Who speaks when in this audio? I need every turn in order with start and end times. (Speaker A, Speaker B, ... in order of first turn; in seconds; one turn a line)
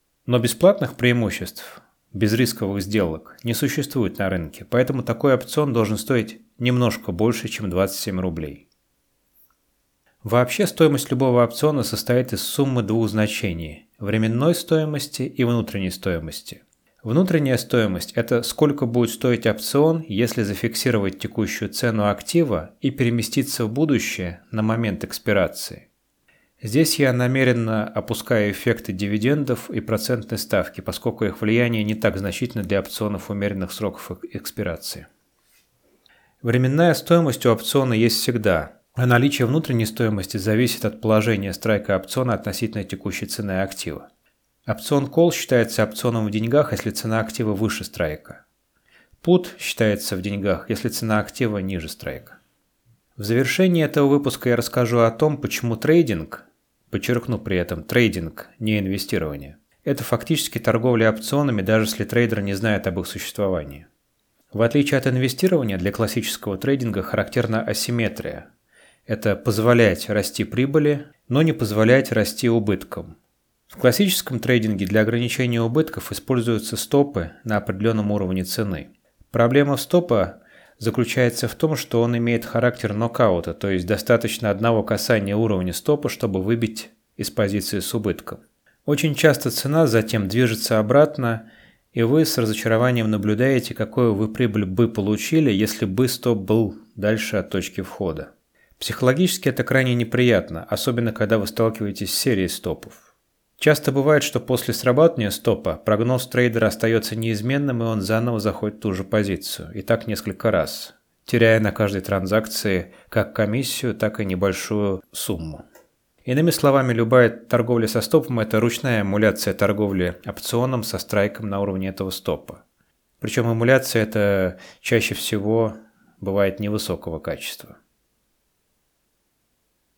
Speaker A: 0.2-8.7
Speaker A: 10.2-25.9
Speaker A: 26.6-35.1
Speaker A: 36.4-44.0
Speaker A: 44.6-48.4
Speaker A: 49.2-52.4
Speaker A: 53.1-63.9
Speaker A: 64.5-68.5
Speaker A: 69.1-73.2
Speaker A: 73.7-103.1
Speaker A: 103.6-115.6
Speaker A: 116.2-122.6
Speaker A: 123.2-127.8